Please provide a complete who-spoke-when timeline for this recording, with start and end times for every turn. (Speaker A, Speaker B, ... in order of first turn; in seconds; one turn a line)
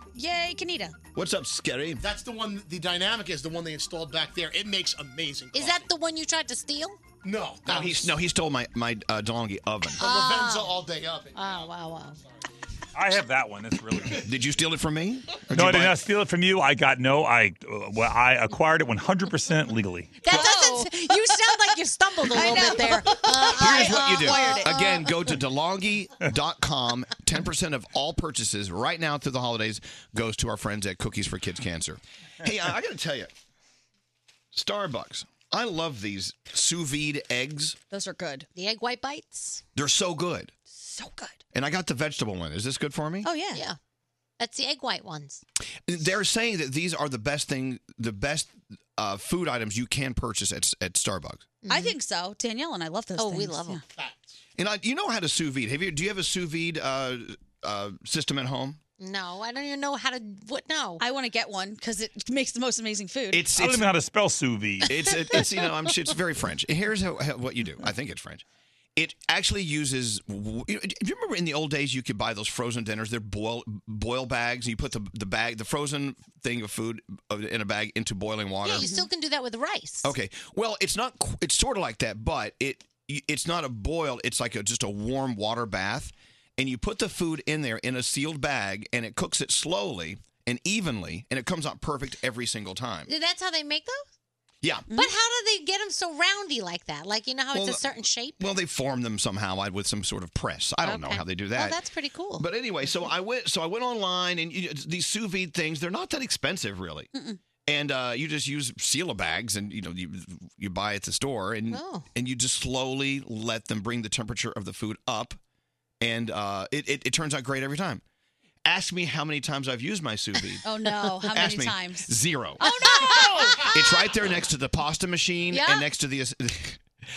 Speaker A: 0.1-0.9
Speaker B: 1.1-2.0
Speaker C: 2.0-5.9
Speaker D: 5.5-7.0
Speaker C: 7.2-8.0
Speaker B: 7.7-10.0
Speaker C: 9.9-11.7
Speaker D: 10.0-10.8
Speaker D: 11.3-12.2
Speaker E: 12.9-14.2
Speaker B: 14.2-16.0
Speaker E: 15.5-20.3
Speaker D: 20.2-24.8
Speaker A: 20.3-21.1
Speaker A: 22.3-25.2
Speaker B: 23.5-33.3
Speaker B: 34.5-37.8
Speaker A: 37.9-38.5
Speaker D: 38.5-39.6
Speaker B: 39.8-40.5
Speaker A: 40.8-41.3
Speaker B: 41.5-43.3
Speaker A: 43.2-43.6
Speaker D: 44.4-45.4
Speaker B: 45.9-51.5
Speaker D: 51.6-52.0
Speaker A: 51.7-53.8
Speaker D: 53.2-53.8
Speaker C: 53.9-54.4
Speaker B: 54.5-58.8
Speaker D: 59.0-61.0
Speaker A: 61.0-63.4
Speaker B: 63.3-63.9
Speaker E: 63.5-65.2
Speaker B: 64.9-68.4
Speaker B: 69.0-78.9
Speaker D: 78.6-80.1
Speaker A: 78.8-79.0
Speaker B: 80.0-93.1
Speaker D: 93.1-94.0
Speaker B: 94.6-94.9
Speaker D: 94.9-98.4
Speaker B: 97.5-101.8
Speaker D: 100.8-102.4
Speaker B: 102.4-107.1
Speaker A: 107.1-107.4
Speaker B: 107.7-115.4
Speaker D: 111.7-112.0
Speaker B: 116.0-118.0
Speaker B: 118.6-120.6
Speaker A: 120.6-123.4
Speaker B: 121.3-126.8
Speaker D: 122.6-124.0
Speaker D: 125.5-125.8